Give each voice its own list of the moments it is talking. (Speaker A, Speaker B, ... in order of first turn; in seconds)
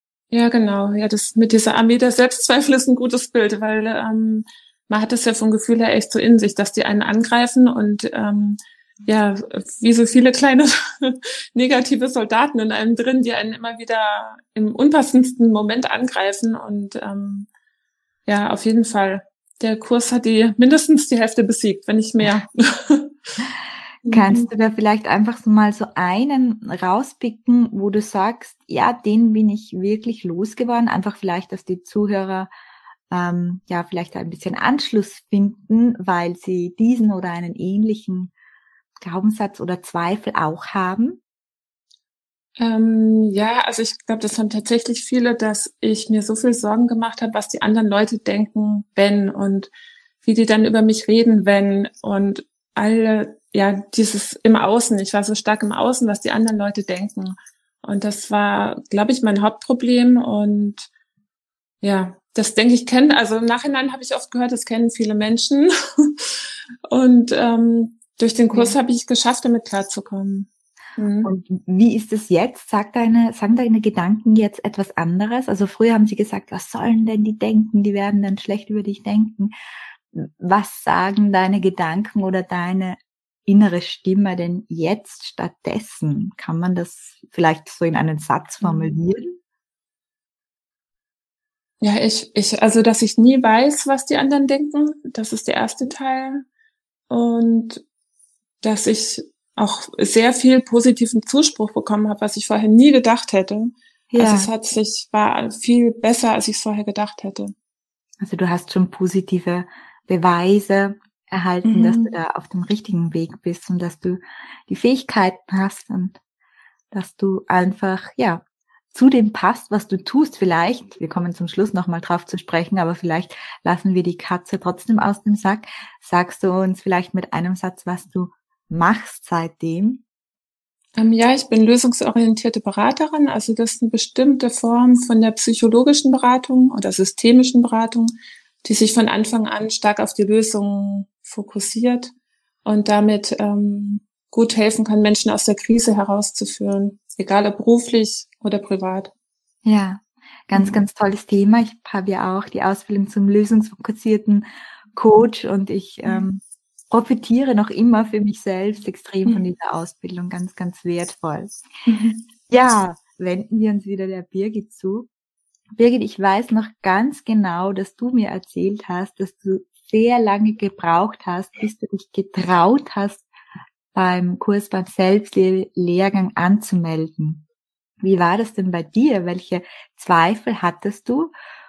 Speaker A: 0.3-17.5, 18.2-23.1, 24.1-24.4, 42.6-49.7, 50.2-60.9, 61.8-71.3, 88.6-89.0, 91.8-96.5, 97.1-97.8, 98.6-107.5, 111.6-112.1, 130.9-138.1, 138.6-142.1, 142.6-149.1, 150.5-150.8, 161.9-162.2
Speaker B: 24.1-32.5, 33.1-38.3, 39.0-41.2, 71.2-79.5, 80.1-89.4, 104.1-104.5, 108.2-116.2, 116.9-130.0, 149.6-161.7, 162.5-165.1, 165.8-173.2, 173.9-177.4, 178.0-181.3